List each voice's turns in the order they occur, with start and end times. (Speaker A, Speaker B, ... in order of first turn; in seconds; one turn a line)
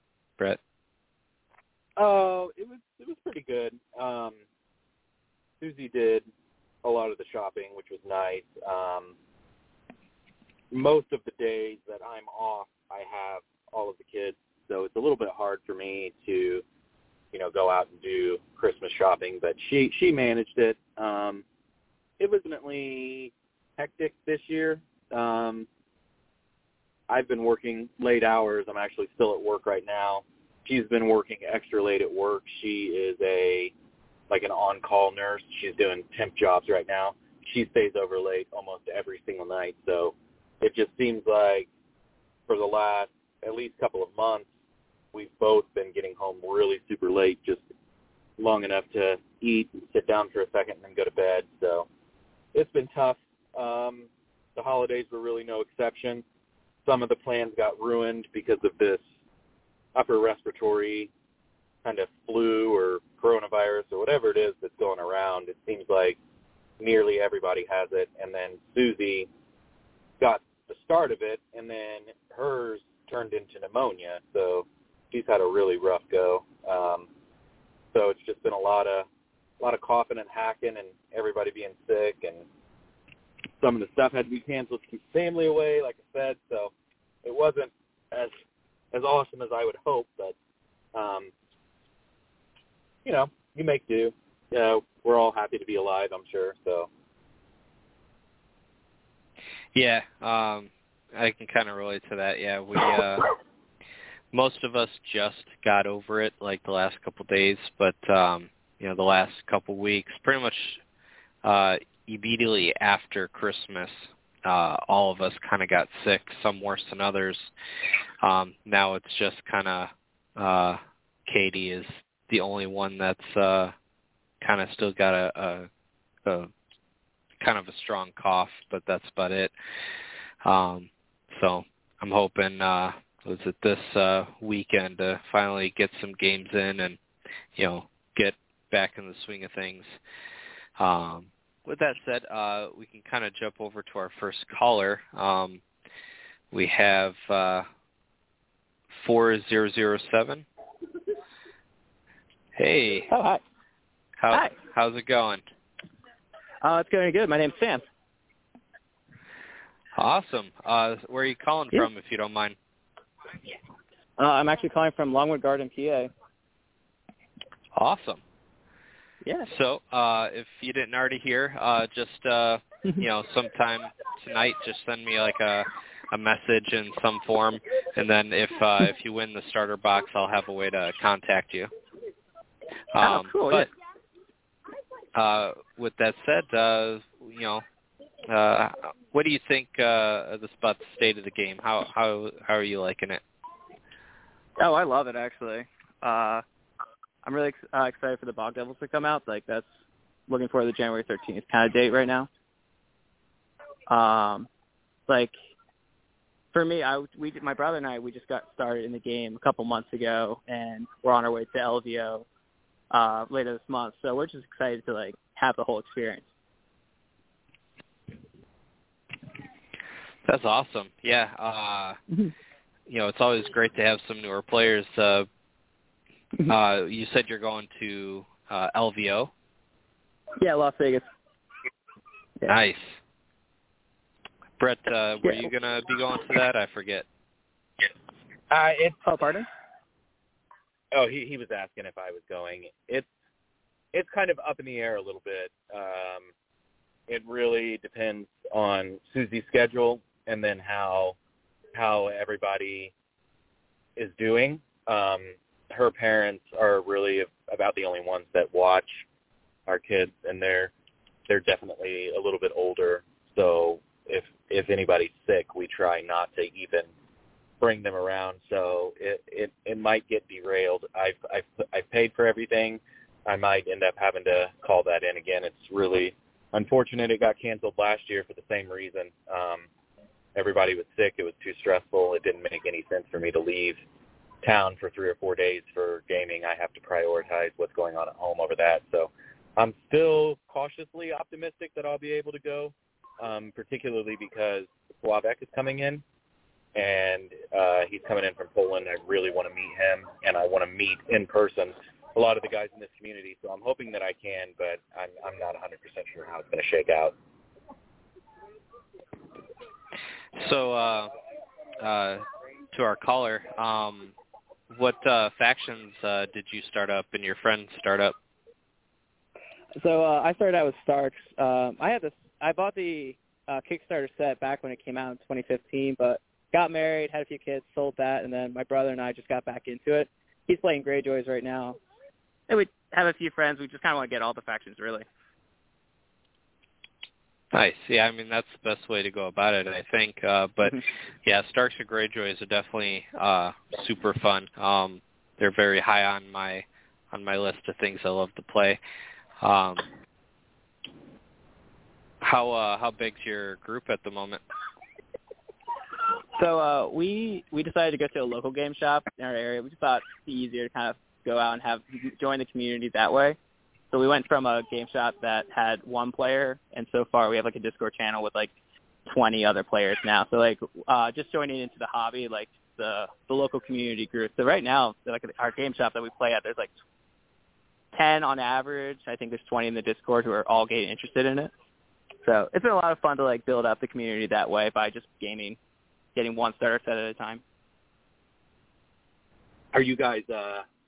Speaker A: 2.0-4.4
Speaker A: 5.6-6.3
Speaker A: 6.8-9.2
Speaker A: 10.7-16.6
Speaker A: 17.3-21.4
Speaker A: 22.2-25.7
Speaker A: 27.1-33.7
Speaker A: 34.3-41.7
Speaker A: 42.5-44.5
Speaker A: 45.1-47.6
Speaker A: 48.4-51.9
Speaker A: 52.5-56.2
Speaker A: 56.9-59.0
Speaker A: 59.9-61.1
Speaker A: 61.8-66.2
Speaker A: 66.8-69.3
Speaker A: 70.2-77.1
Speaker A: 77.9-79.1
Speaker A: 79.6-82.5
Speaker A: 83.6-86.7
Speaker A: 87.2-88.3
Speaker A: 88.9-90.3
Speaker A: 90.9-91.3
Speaker A: 93.0-96.9
Speaker B: 99.8-103.3
Speaker B: 104.3-110.8
Speaker B: 111.4-117.5
Speaker B: 118.2-123.7
Speaker B: 124.4-125.7
Speaker B: 126.2-126.5
Speaker B: 127.4-129.5
Speaker B: 130.4-137.0
Speaker B: 137.6-140.0
Speaker B: 140.8-145.6
Speaker B: 146.5-147.7
Speaker B: 148.9-150.5
Speaker B: 152.6-153.1
Speaker C: 153.1-153.4
Speaker B: 154.2-155.4
Speaker C: 156.6-157.8
Speaker B: 160.0-162.6
Speaker C: 164.2-166.1
Speaker B: 167.8-168.2
Speaker B: 169.5-181.7
Speaker B: 182.9-183.7
Speaker C: 183.0-183.7
Speaker B: 185.2-187.6
Speaker B: 188.3-193.2
Speaker C: 194.6-196.4
Speaker C: 197.2-199.7
Speaker C: 200.3-202.3
Speaker C: 203.9-204.5
Speaker C: 205.1-205.3
Speaker C: 206.5-212.3
Speaker C: 212.9-216.3
Speaker B: 220.3-222.0
Speaker B: 222.9-225.3
Speaker B: 226.5-229.3
Speaker C: 230.4-231.1
Speaker B: 232.5-233.0
Speaker B: 234.6-237.1
Speaker A: 238.5-239.0
Speaker C: 239.0-239.5
Speaker A: 240.9-243.1
Speaker A: 243.9-246.3
Speaker A: 247.1-251.2
Speaker A: 251.7-252.9
Speaker A: 254.0-259.1
Speaker A: 259.7-260.7
Speaker A: 261.3-266.9
Speaker A: 267.6-279.7
Speaker A: 280.4-283.8
Speaker A: 284.4-296.0
Speaker A: 296.8-307.1
Speaker B: 310.4-311.1
Speaker B: 311.8-314.1
Speaker B: 314.7-318.1
Speaker C: 319.8-331.8
Speaker C: 332.5-335.1
Speaker B: 337.5-348.8
Speaker B: 349.4-349.9
Speaker B: 352.2-354.4
Speaker C: 356.4-363.4
Speaker C: 363.9-368.5
Speaker C: 369.1-376.7
Speaker C: 377.9-381.5
Speaker C: 382.2-385.6
Speaker C: 386.1-387.4
Speaker A: 389.7-390.7